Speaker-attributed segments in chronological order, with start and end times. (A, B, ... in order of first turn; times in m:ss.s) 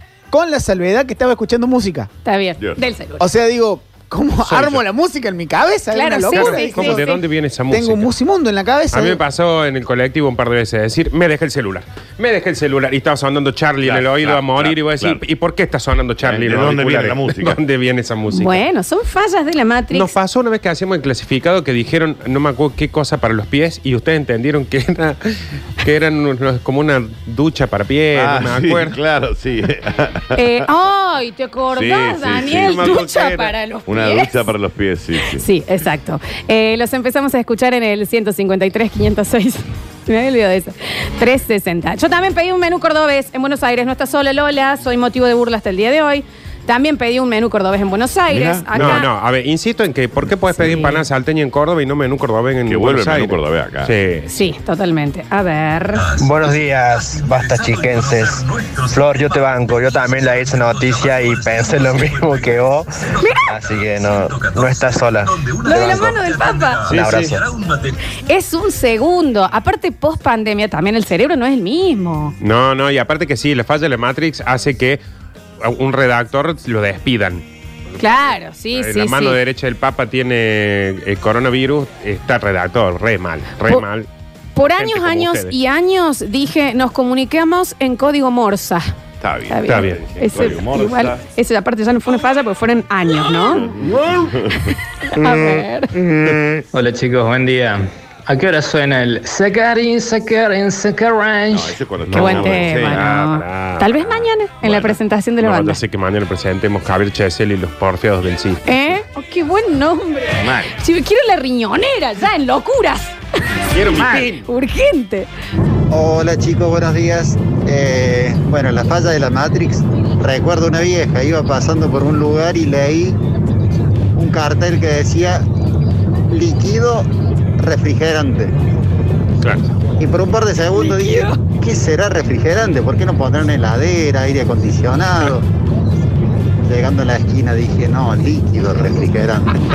0:00.3-0:02.1 A
0:02.2-0:03.3 B
0:03.2-0:07.0 A
0:04.4-0:04.8 C
0:05.9-0:07.2 B
0:06.3-0:08.1 C
0:07.7-0:09.2 A
0:08.9-0:18.6 C
0:13.8-0:15.2 D
0:16.2-0:17.6 D
0:18.3-0:20.1 B
0:19.9-0:29.0 C
0:28.1-0:30.4 D
0:30.4-0:34.5 B
0:31.7-0:33.0 D
0:32.4-0:33.5 C
0:33.9-0:35.5 D
0:35.3-0:49.1 B
0:48.3-0:49.0 D
0:48.8-0:54.3 C
0:52.7-0:53.9 D
0:54.3-0:56.1 B
0:56.2-0:58.2 E
0:58.9-1:02.9 E
1:03.2-1:03.5 B
1:03.5-1:05.3 E
1:05.6-1:06.9 B
1:06.9-1:07.4 C
1:07.0-1:07.4 E
1:08.3-1:12.4 B
1:12.4-1:15.0 C
1:15.6-1:24.1 C
1:18.0-1:19.4 B
1:24.6-1:29.0 B
1:24.6-1:25.5 C
1:29.2-1:31.2 D
1:29.5-1:33.7 B
1:29.7-1:30.0 C
1:33.5-1:36.6 D
1:35.1-1:35.9 B
1:36.7-1:41.8 F
1:41.5-1:43.1 D
1:42.1-1:48.6 C
1:42.1-1:45.8 B
1:48.7-1:53.2 B
1:50.4-1:50.7 D
1:53.7-1:54.4 C
1:54.0-1:54.3 D
1:54.4-1:55.3 B
1:55.9-2:03.2 G
2:04.2-2:05.4 G
2:06.3-2:07.1 G
2:07.6-2:08.6 G
2:09.4-2:09.7 C
2:10.0-2:15.5 G
2:10.8-2:11.4 B
2:16.6-2:19.6 G